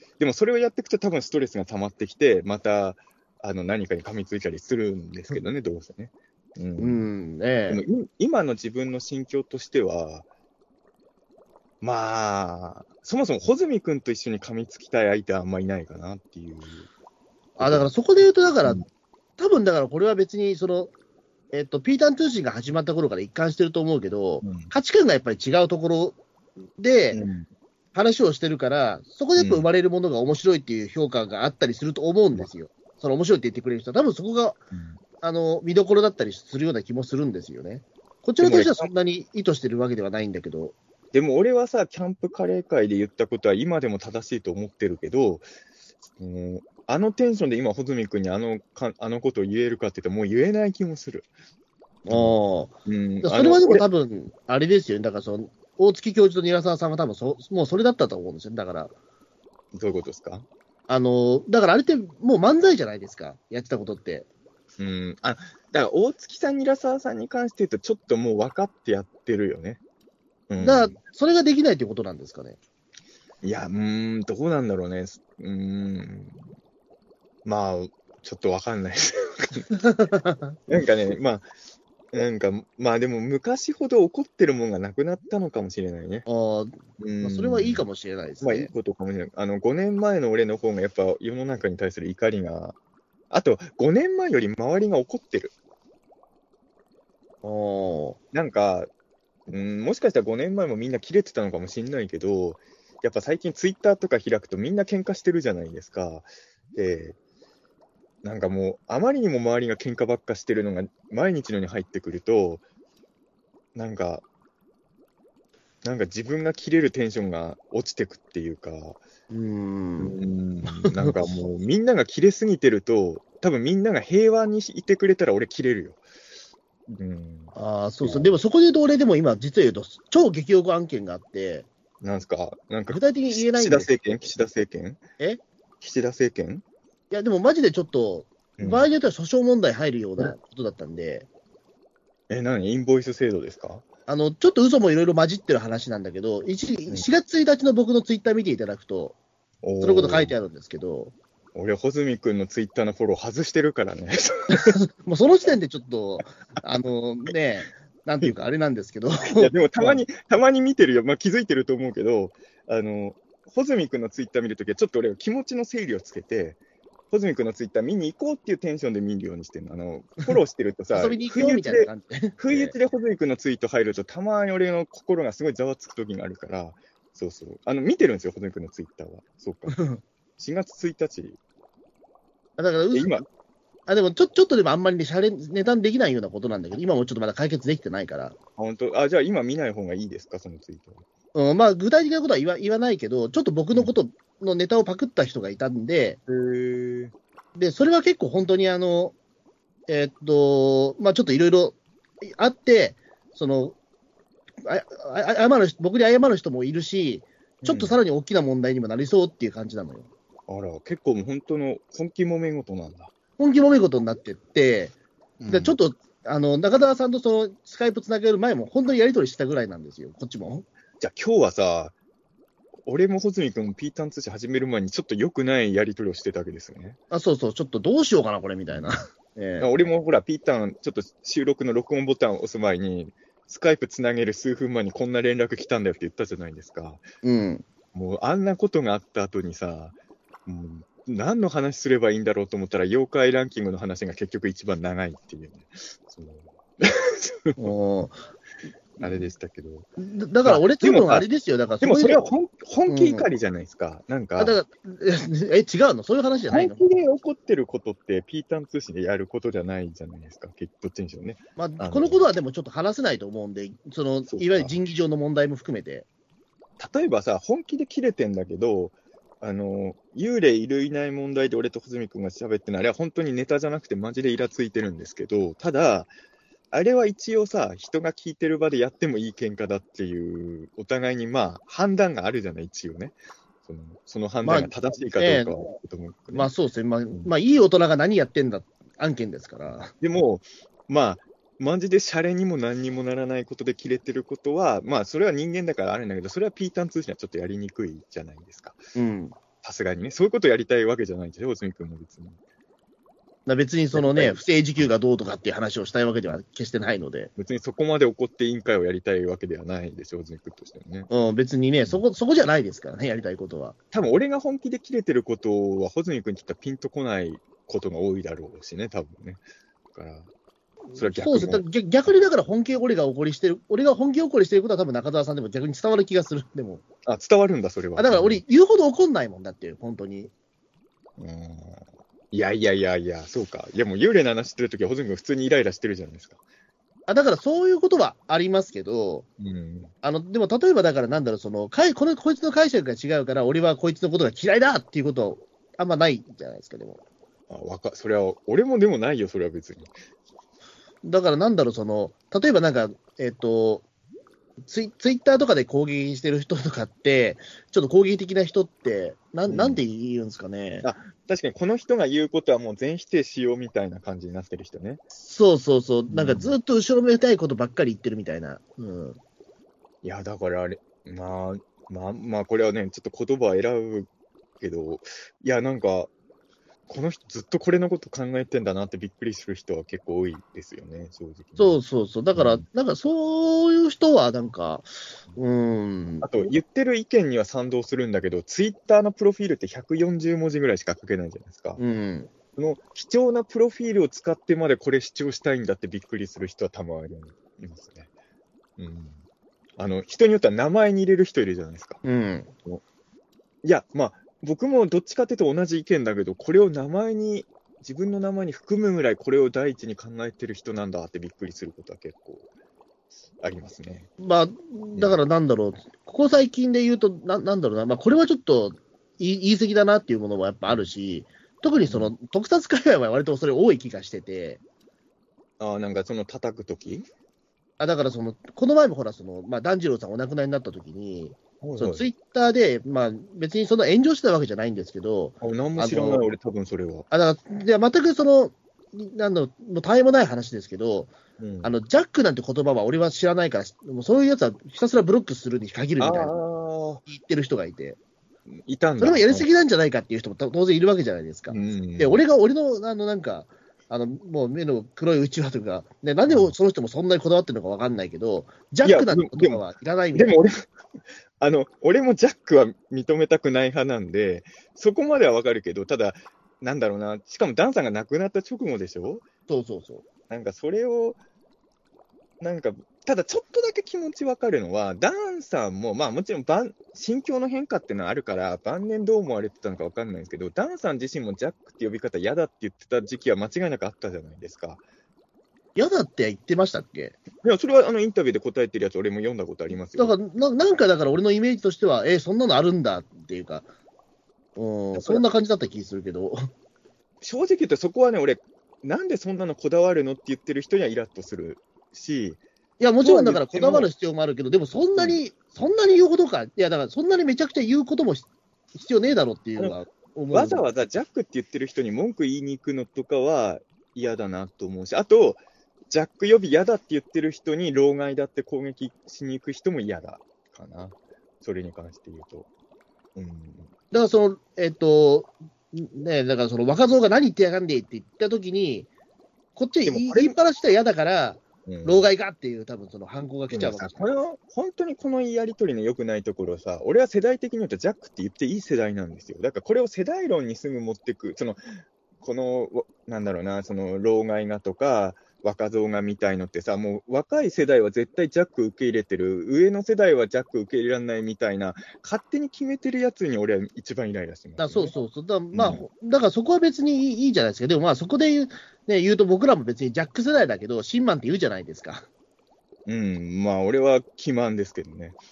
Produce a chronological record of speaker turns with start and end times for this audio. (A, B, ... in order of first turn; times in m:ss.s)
0:00.2-0:07.0 A
0:06.8-0:07.8 B
0:07.7-0:10.3 A
0:11.8-0:16.9 A
0:17.6-0:18.8 B
0:17.6-0:18.8 A
0:19.4-0:20.9 B
0:21.5-0:26.2 B
0:24.4-0:24.7 A
0:26.8-0:27.2 B
0:27.1-0:27.5 A
0:27.9-0:34.6 B
0:29.4-0:29.7 A
0:34.7-0:35.0 A
0:35.2-0:40.8 B
0:38.4-0:38.9 A
0:41.1-0:45.5 A
0:46.2-0:51.3 A
0:52.1-0:58.9 B
0:52.1-0:53.8 A
0:59.7-1:00.5 A
1:00.9-1:04.3 B
1:04.8-1:09.8 A
1:10.5-1:11.0 A
1:10.6-1:12.6 B
1:13.4-1:16.4 A
1:17.4-1:19.7 A
1:19.8-1:20.6 B
1:20.7-1:21.5 A
1:22.1-1:26.3 A
1:26.3-1:28.7 B
1:27.0-1:27.8 A
1:28.4-1:32.8 A
1:33.3-1:35.5 A
1:37.4-1:38.2 B
1:38.3-1:38.9 A
1:39.5-1:47.2 A
1:48.2-1:52.6 A
1:53.8-1:54.2 A
1:55.8-1:59.0 A
1:59.3-2:00.1 B
2:00.0-2:06.0 A
2:00.7-2:01.4 B
2:06.9-2:08.3 A
2:07.6-2:11.7 B
2:12.0-2:15.0 A
2:12.9-2:14.3 B
2:15.8-2:16.6 A
2:17.1-2:21.3 B
2:18.6-2:18.9 A
2:22.3-2:23.8 A
2:24.1-2:29.2 B
2:29.6-2:30.4 A
2:29.8-2:31.1 B
2:31.5-2:34.8 A
2:34.5-2:40.0 B
2:39.4-2:46.6 A
2:47.1-2:59.8 A
2:50.9-2:52.8 B
2:59.8-3:00.0 B
3:00.4-3:01.4 A
3:02.6-3:03.2 B
3:02.9-3:03.2 A
3:03.9-3:08.4 B
3:08.6-3:11.0 A
3:11.3-3:16.2 B
3:16.3-3:17.1 A
3:17.6-3:19.2 B
3:19.9-3:23.8 B
3:24.6-3:30.1 B
3:27.6-3:28.0 A
3:30.5-3:33.1 A
3:33.4-3:34.9 B
3:35.4-3:35.8 A
3:35.5-3:40.7 B
3:41.0-3:41.9 A
3:42.8-3:47.0 A
3:47.1-3:49.7 B
3:48.7-3:49.0 A
3:49.6-3:57.1 A
3:57.2-3:57.6 B
3:57.9-3:59.9 A
4:00.5-4:07.6 A
4:07.6-4:08.2 B
4:09.0-4:09.9 A
4:10.0-4:12.2 B
4:10.4-4:11.3 A
4:11.8-4:14.6 A
4:12.9-4:13.3 B
4:14.4-4:16.8 B
4:16.5-4:22.2 A
4:21.6-4:26.1 B
4:24.3-4:24.7 A
4:26.8-4:36.1 A
4:36.7-4:46.5 A
4:44.4-4:45.6 B
4:46.3-4:49.9 B
4:50.0-4:58.8 A
4:59.0-4:59.4 B
4:59.6-5:02.4 A
5:03.5-5:07.3 B
5:03.9-5:04.9 A
5:07.4-5:11.1 A
5:11.1-5:13.8 B
5:13.9-5:19.4 A
5:19.9-5:20.3 A
5:20.9-5:26.8 B
5:21.0-5:21.6 A
5:27.1-5:28.4 A
5:28.0-5:30.3 B
5:31.2-5:36.4 A
5:37.1-5:39.3 B
5:39.4-5:39.9 A
5:40.0-5:47.0 B
5:47.5-5:50.0 A
5:51.0-5:53.8 B
5:54.6-6:00.9 B
5:59.5-5:59.8 A
6:00.8-6:05.0 A
6:05.2-6:09.2 B
6:06.1-6:06.6 A
6:10.0-6:14.1 A
6:14.6-6:16.1 A
6:16.9-6:21.8 A
6:21.6-6:26.3 B
6:22.3-6:22.6 A
6:26.2-6:31.8 A
6:31.8-6:32.3 B
6:32.6-6:38.1 A
6:38.8-6:39.2 A
6:39.8-6:42.0 A
6:42.0-6:42.5 B
6:43.6-6:52.5 A
6:53.4-6:54.1 A
6:54.2-7:04.6 B
6:55.0-6:55.2 A
7:01.8-7:02.1 A
7:05.6-7:07.1 A
7:07.8-7:16.3 B
7:11.6-7:12.1 A
7:15.4-7:17.1 A
7:17.1-7:26.4 B
7:21.4-7:21.7 A
7:26.0-7:27.0 A
7:27.0-7:28.0 B
7:28.5-7:29.5 A
7:29.0-7:40.4 B
7:31.5-7:32.2 A
7:38.8-7:39.6 A
7:40.2-7:40.7 A
7:41.4-7:49.2 A
7:49.5-7:50.0 B
7:50.3-7:51.2 A
7:52.4-8:04.8 A
8:05.8-8:07.2 B
8:07.4-8:10.2 A
8:10.0-8:13.7 B
8:14.6-8:16.4 B
8:14.9-8:15.2 A
8:17.2-8:22.4 A
8:22.8-8:30.6 B
8:23.0-8:23.9 A
8:25.0-8:25.2 A
8:30.3-8:42.5 A
8:43.2-8:43.7 A
8:43.9-8:48.9 B
8:49.6-8:54.1 B
8:49.9-8:50.3 A
8:51.7-8:52.1 A
8:53.5-9:01.6 A
9:02.2-9:15.0 A
9:14.6-9:22.1 B
9:15.5-9:15.8 A
9:22.9-9:25.2 A